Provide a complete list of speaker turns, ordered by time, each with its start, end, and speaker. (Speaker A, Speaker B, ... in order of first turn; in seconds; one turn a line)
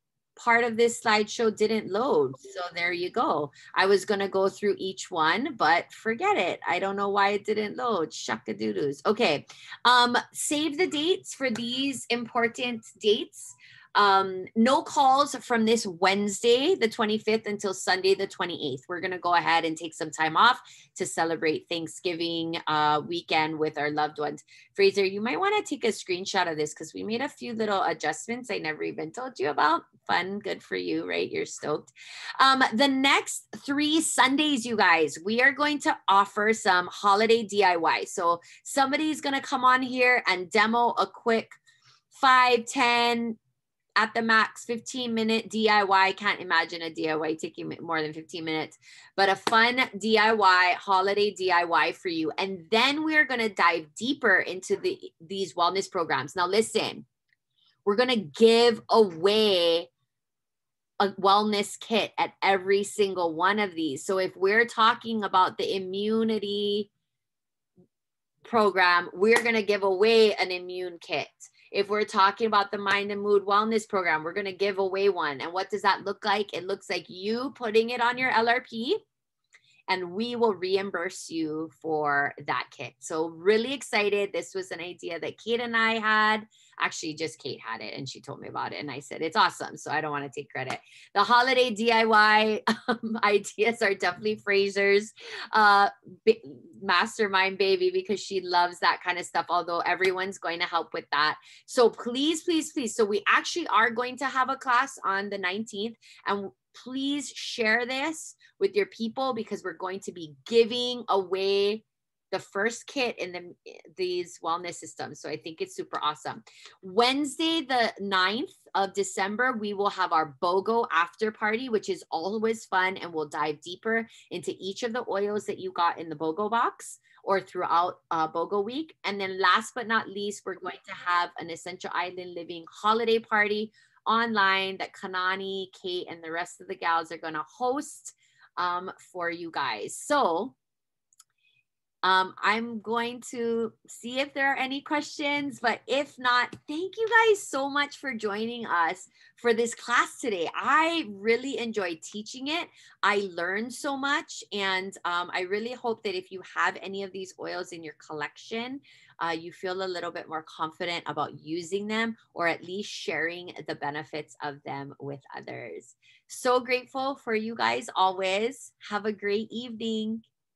Speaker A: 0.3-41.6
Speaker A: 42.1-43.4
Speaker A: 44.0-57.0
Speaker A: 57.8-59.9
Speaker A: 61.0-66.9
Speaker A: 68.4-79.0
Speaker A: 79.9-140.5
Speaker A: 142.0-170.2